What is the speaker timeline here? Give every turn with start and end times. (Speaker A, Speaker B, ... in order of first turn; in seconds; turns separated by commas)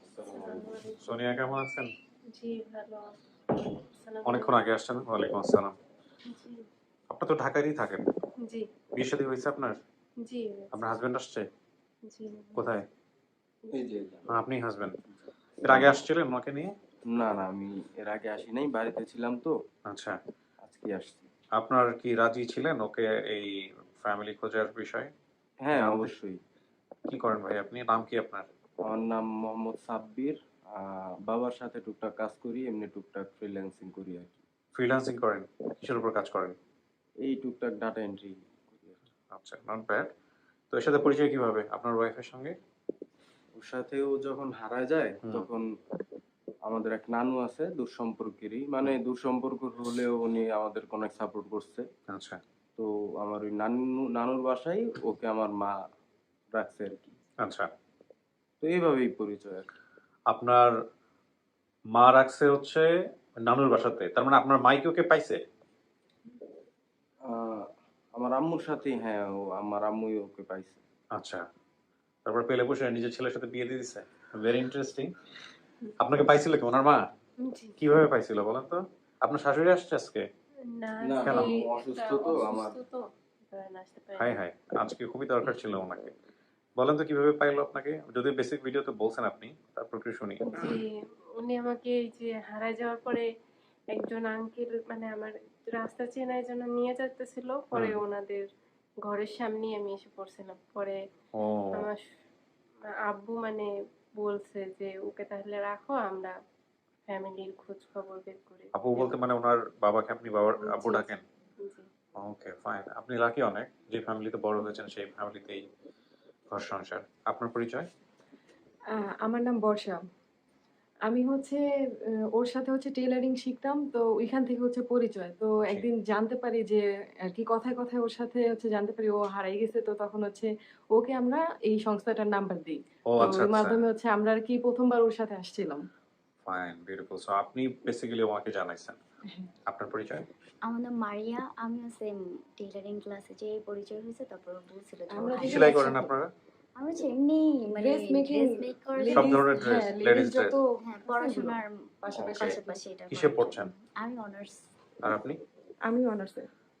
Speaker A: 0.1-0.7, Speaker B: 0.3-1.0, Speaker C: 1.0-1.9, Speaker B: 2.3-4.5, Speaker C: 4.2-5.7, Speaker B: 6.3-6.6, Speaker C: 7.1-8.0, Speaker C: 8.9-9.8, Speaker B: 10.2-10.7, Speaker C: 10.7-11.5, Speaker B: 12.1-12.6, Speaker C: 12.6-12.8, Speaker A: 13.7-14.4, Speaker C: 14.3-14.9, Speaker A: 15.6-16.0, Speaker C: 15.7-16.7, Speaker A: 17.1-19.6, Speaker C: 19.9-20.2, Speaker A: 20.6-21.3, Speaker C: 21.6-25.1, Speaker A: 25.6-26.4, Speaker C: 25.7-26.1, Speaker C: 27.1-28.5, Speaker A: 28.9-34.4, Speaker C: 34.7-36.6, Speaker A: 37.2-39.0, Speaker C: 39.3-40.1, Speaker C: 40.7-42.5, Speaker A: 43.6-45.7, Speaker A: 46.7-51.9, Speaker C: 52.1-52.4, Speaker A: 52.8-55.7, Speaker A: 56.5-57.2, Speaker C: 57.4-57.7, Speaker A: 58.6-59.7, Speaker C: 60.3-60.7, Speaker C: 61.9-62.9, Speaker C: 63.4-65.4, Speaker A: 67.2-70.8, Speaker C: 71.1-71.5, Speaker C: 72.2-75.1, Speaker C: 76.0-77.1, Speaker B: 77.5-77.7, Speaker C: 77.8-80.3, Speaker B: 80.7-83.0, Speaker A: 81.0-82.8, Speaker C: 81.2-81.5, Speaker B: 83.5-84.3, Speaker C: 84.2-86.1, Speaker C: 86.8-90.7, Speaker B: 90.5-90.9, Speaker B: 91.4-93.2, Speaker B: 93.9-98.5, Speaker B: 99.0-101.0, Speaker C: 101.3-101.9, Speaker B: 101.7-102.0, Speaker B: 103.0-106.3, Speaker B: 107.1-109.0, Speaker C: 108.7-111.2, Speaker B: 110.5-111.1, Speaker B: 111.6-111.8, Speaker C: 112.2-115.7, Speaker C: 116.5-117.9, Speaker D: 118.9-120.0, Speaker D: 121.1-121.6, Speaker D: 122.3-135.8, Speaker C: 125.6-125.9, Speaker C: 133.1-133.8, Speaker C: 136.4-139.0, Speaker C: 139.7-140.3, Speaker E: 140.6-145.9, Speaker D: 145.1-146.1, Speaker C: 145.3-146.3, Speaker E: 146.8-149.5, Speaker D: 147.7-152.8, Speaker C: 149.1-150.6, Speaker E: 150.8-154.6, Speaker C: 152.1-153.7, Speaker C: 155.0-155.4, Speaker D: 155.9-156.5